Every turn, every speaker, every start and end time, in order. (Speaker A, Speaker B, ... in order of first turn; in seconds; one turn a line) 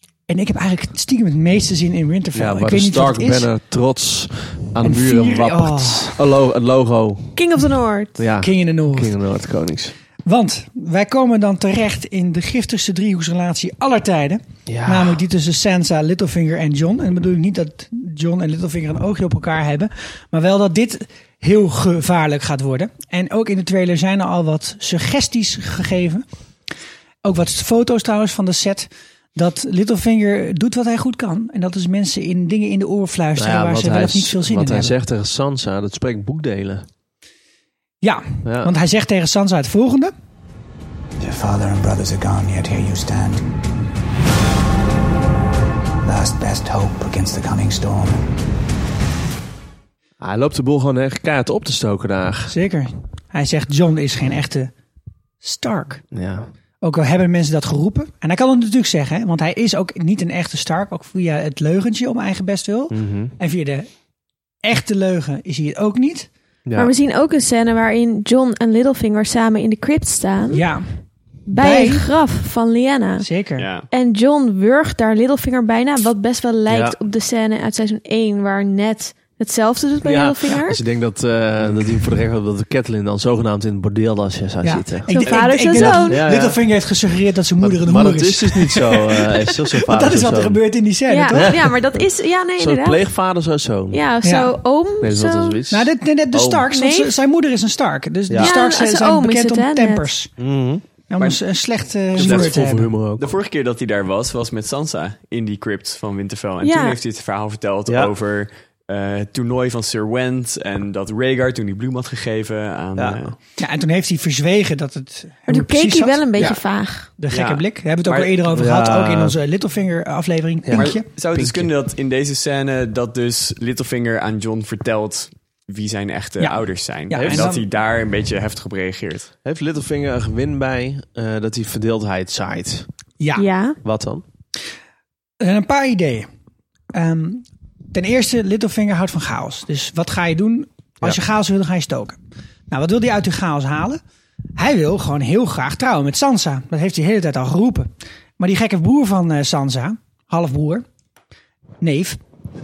Speaker A: 0.3-3.5
Speaker B: 2.3-7.4
Speaker A: 4.8-6.2
Speaker C: 7.3-8.2
Speaker B: 8.2-9.9
Speaker A: 8.4-9.1
Speaker A: 10.2-26.2
Speaker B: 14.7-15.2
Speaker A: 27.2-34.9
Speaker B: 33.4-36.9
Speaker A: 38.0-40.1
Speaker B: 38.4-38.7
Speaker D: 41.2-43.4
Speaker D: 46.0-48.2
Speaker B: 50.2-52.5
Speaker A: 52.5-54.7
Speaker A: 55.4-56.0
Speaker B: 56.1-56.5
Speaker A: 56.8-63.9
Speaker B: 62.9-63.3
Speaker A: 64.6-66.3
Speaker B: 66.7-66.9
Speaker C: 66.8-70.6
Speaker A: 70.5-70.8
Speaker C: 71.5-73.2
Speaker A: 71.5-72.0
Speaker A: 73.2-73.7
Speaker E: 73.6-73.9
Speaker C: 73.9-80.8
Speaker B: 76.7-77.0
Speaker B: 80.0-86.6
Speaker A: 84.6-91.5
Speaker C: 85.1-86.2
Speaker B: 87.6-90.6
Speaker C: 91.1-93.0
Speaker B: 91.3-92.0
Speaker B: 92.6-94.0
Speaker C: 93.9-95.6
Speaker A: 94.2-94.5
Speaker B: 95.0-96.6
Speaker A: 95.7-100.3
Speaker C: 96.7-97.1
Speaker C: 98.4-100.1
Speaker B: 100.4-100.8
Speaker A: 101.1-102.9
Speaker B: 102.1-103.3
Speaker E: 102.2-102.5
Speaker E: 103.2-113.3
Speaker C: 106.6-107.0
Speaker B: 107.9-108.1
Speaker B: 113.0-113.3
Speaker A: 113.6-121.0
Speaker C: 115.5-117.1
Speaker E: 117.3-118.3
Speaker B: 118.5-119.3
Speaker B: 120.6-121.7
Speaker E: 120.7-129.3
Speaker A: 126.4-127.6
Speaker B: 127.1-127.5
Speaker B: 129.4-132.9
Speaker A: 133.2-133.4
Speaker C: 133.3-133.8
Speaker B: 133.8-134.2
Speaker A: 135.4-136.3
Speaker A: 136.9-142.2
Speaker A: 142.7-144.0
Speaker A: 144.6-150.8
Speaker A: 151.8-152.2